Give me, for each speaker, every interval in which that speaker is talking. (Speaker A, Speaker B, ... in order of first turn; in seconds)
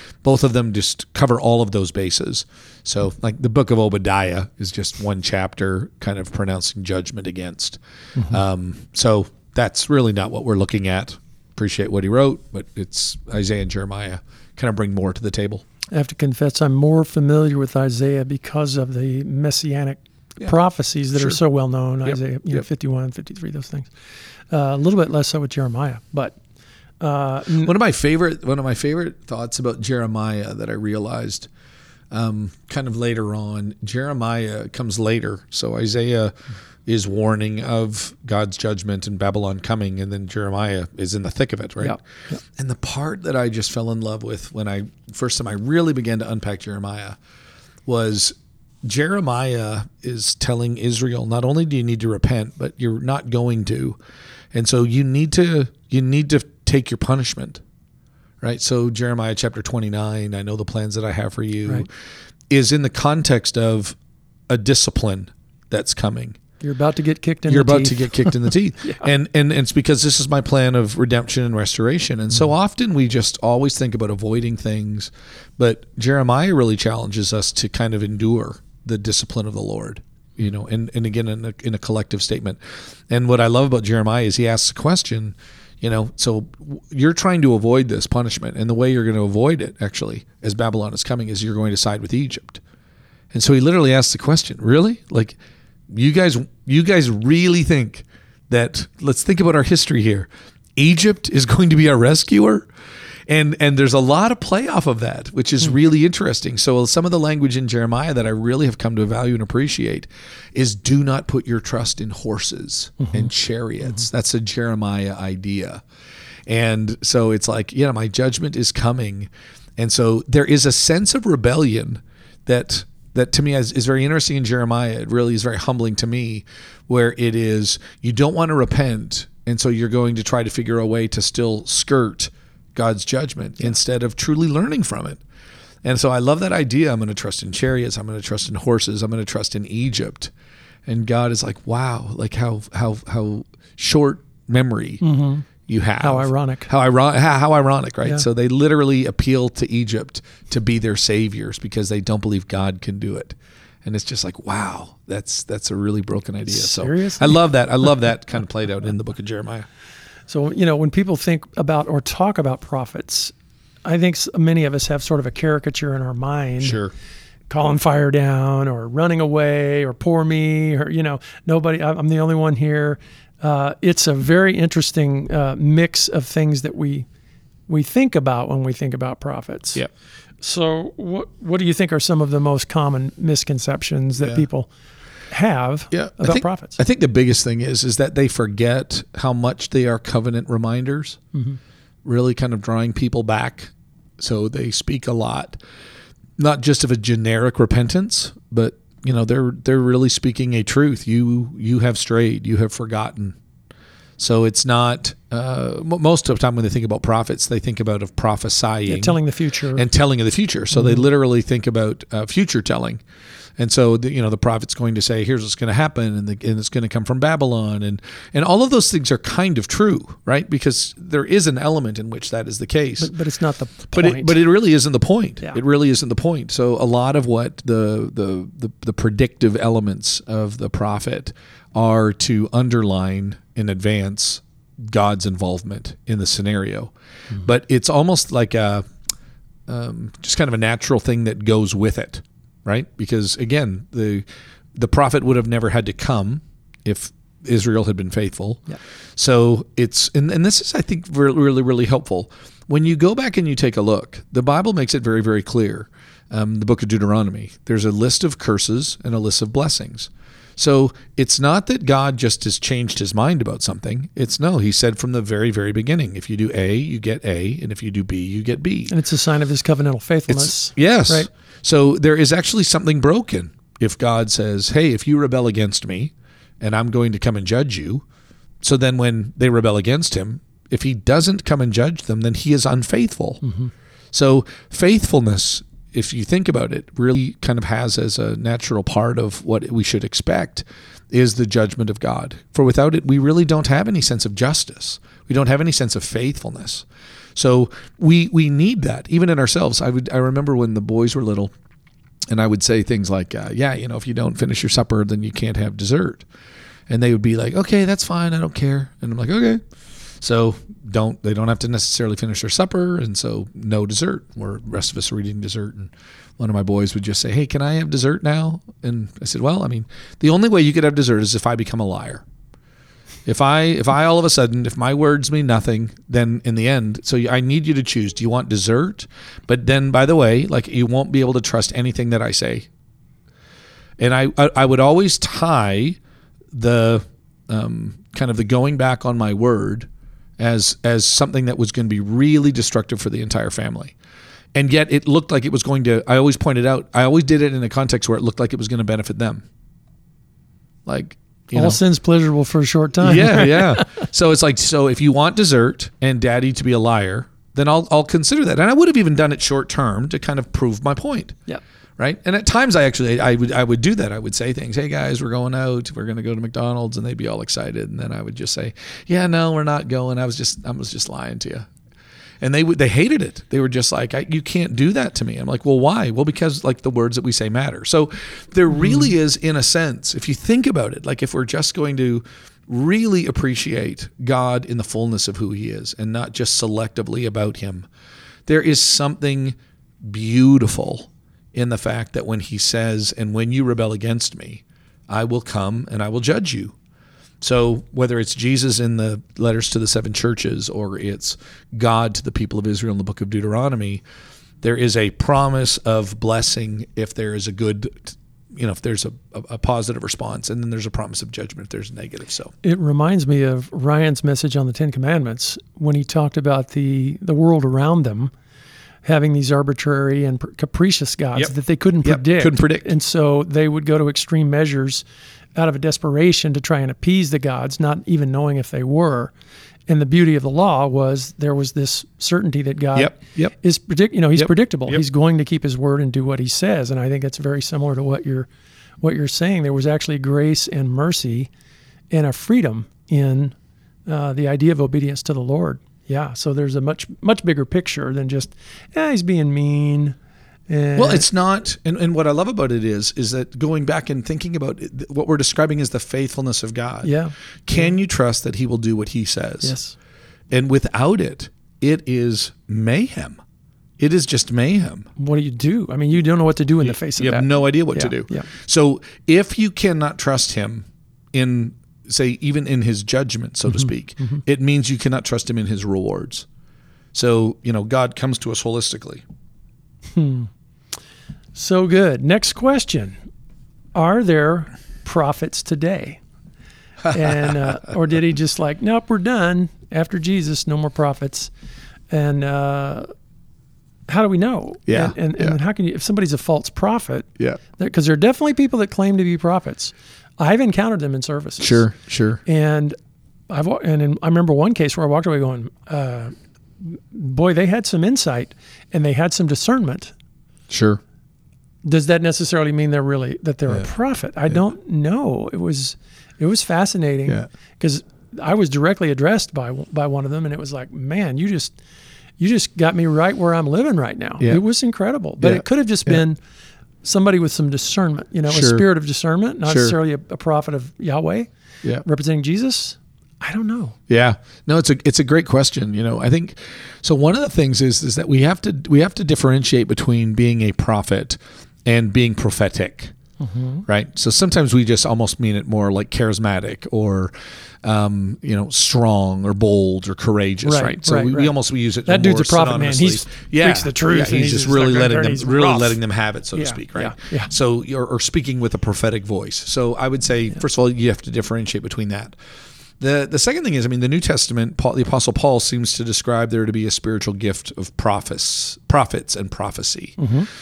Speaker A: 0.2-15.7, 21.1-21.4, 22.1-22.6, 27.6-31.5, 32.1-36.3, 36.9-42.0, 42.5-47.2, 47.9-54.0, 54.5-57.6, 58.4-61.9, 62.5-64.0, 64.5-66.4, 67.5-92.6, 93.3-95.4, 95.9-102.7, 103.3-115.8, 116.5-135.2, 135.8-140.3, 140.9-145.0, 145.7-159.7, 166.6-166.9, 184.2-184.5, 185.9-191.2, 192.0-195.6, 196.4-203.4, 204.2-209.2, 209.7-213.0, 213.6-223.1, 223.9-238.8, 239.7-268.9, 270.3-278.0, 278.6-283.4, 284.1-301.5, 302.3-306.3, 306.9-309.6, 310.2-322.2, 323.3-332.7, 334.0-336.0, 336.5-339.9, 340.4-344.0, 344.5-349.4, 350.9-351.8, 353.0-361.4, 362.0-371.7, 372.4-387.9, 388.5-396.8, 397.4-404.0, 404.6-412.5, 422.0-422.9, 432.9-433.5, 434.4-435.0, 451.0-457.1, 457.7-459.8, 460.5-463.4, 464.0-465.1, 466.9-476.5, 477.1-479.2, 487.1-487.5, 494.9-495.6, 501.6-502.4, 510.7-511.0, 525.4-526.2, 528.5-528.9, 529.7-530.0, 534.1-543.1, 543.9-547.3, 547.8-562.4, 563.0-570.3
Speaker B: 15.9-23.9, 24.5-26.4, 27.0-27.7, 41.8-42.4, 66.6-69.0, 113.0-113.3, 145.0-145.4, 146.0-146.7, 156.5-157.4, 160.3-163.3, 163.8-166.8, 167.5-177.1, 177.7-179.8, 180.4-184.7, 185.3-186.8, 191.3-191.6, 208.9-209.9, 210.7-211.0, 223.0-224.4, 268.9-271.3, 283.4-283.7, 351.5-354.0, 378.8-379.1, 412.6-418.3, 419.0-425.0, 425.6-429.3, 429.9-438.5, 439.0-441.5, 442.1-443.6, 444.1-450.2, 450.7-451.2, 457.0-457.9, 459.6-460.0, 465.2-468.5, 480.1-480.5, 481.6-483.2, 483.9-486.2, 487.1-491.5, 492.1-493.1, 494.1-501.9, 502.4-503.0, 503.5-510.1, 511.8-521.8, 522.4-526.4, 527.0-531.5, 532.0-534.0, 543.4-543.9, 550.6-551.5, 552.1-556.0, 556.5-557.5, 570.2-570.5